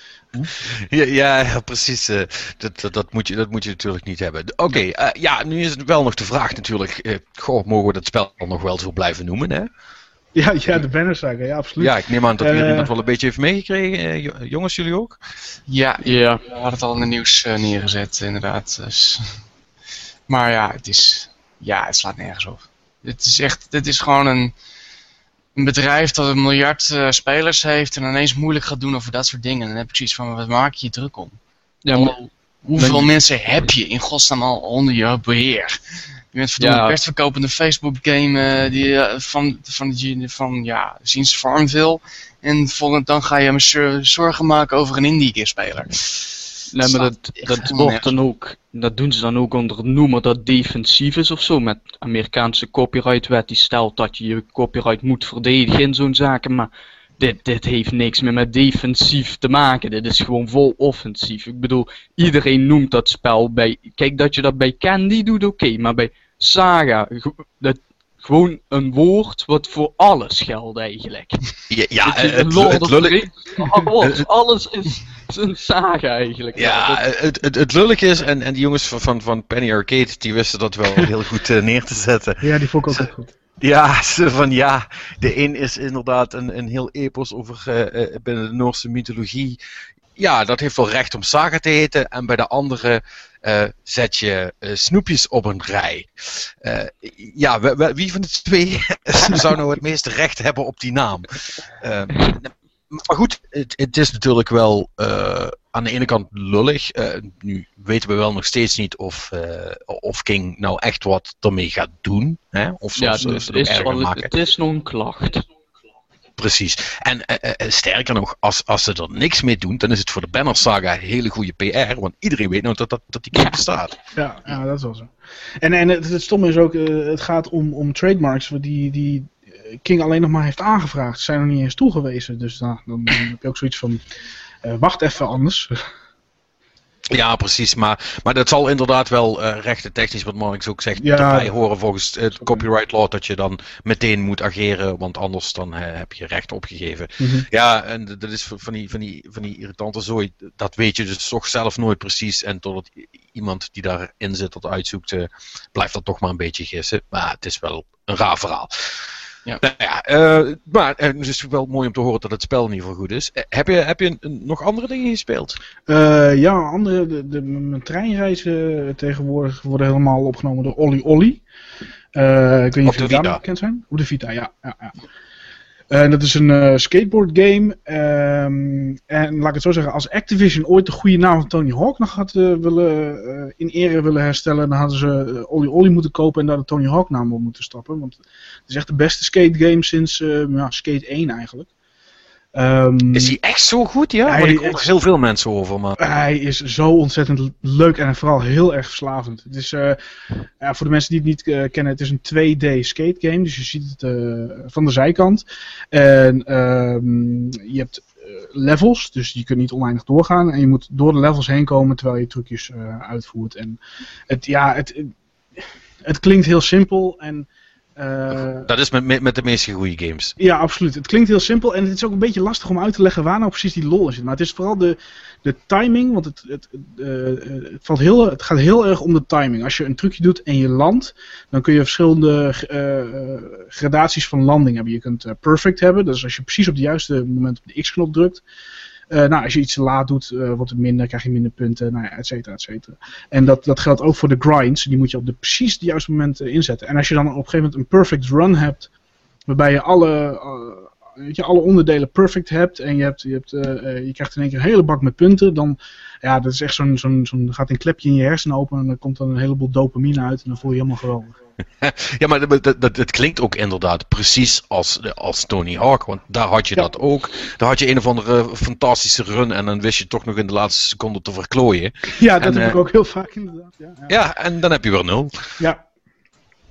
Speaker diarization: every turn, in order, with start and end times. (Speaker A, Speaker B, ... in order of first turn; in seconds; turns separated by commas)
Speaker A: 0.4-9.7, Speaker B: 10.3-12.9, Speaker A: 11.8-15.2, Speaker C: 15.7-19.4, Speaker D: 16.0-16.4, Speaker C: 20.3-24.5, Speaker C: 25.6-31.4, Speaker D: 31.9-32.2, Speaker C: 31.9-35.8, Speaker D: 32.8-33.1, Speaker C: 36.3-48.1, Speaker D: 36.6-37.0, Speaker D: 46.7-77.0, Speaker A: 71.7-73.3, Speaker A: 74.0-74.2, Speaker A: 76.5-83.1, Speaker B: 82.4-83.3, Speaker A: 83.6-89.6, Speaker A: 90.2-114.3, Speaker D: 113.0-115.4, Speaker A: 116.4-124.0, Speaker D: 123.3-123.6, Speaker B: 124.2-134.0, Speaker B: 134.6-135.8, Speaker A: 137.1-159.0, Speaker B: 141.0-141.5, Speaker B: 147.2-147.5, Speaker A: 159.6-165.6, Speaker B: 165.9-171.4, Speaker B: 172.1-175.0, Speaker A: 172.8-173.4, Speaker B: 175.9-191.7, Speaker B: 192.6-193.4, Speaker A: 193.1-196.0, Speaker B: 194.2-194.9, Speaker B: 196.0-200.0, Speaker B: 200.6-215.2, Speaker B: 216.0-218.7, Speaker A: 218.6-220.3, Speaker B: 220.4-238.4, Speaker B: 239.1-248.9, Speaker B: 249.5-261.4, Speaker A: 261.8-272.8, Speaker B: 272.1-274.1, Speaker A: 274.1-275.6, Speaker B: 275.6-275.8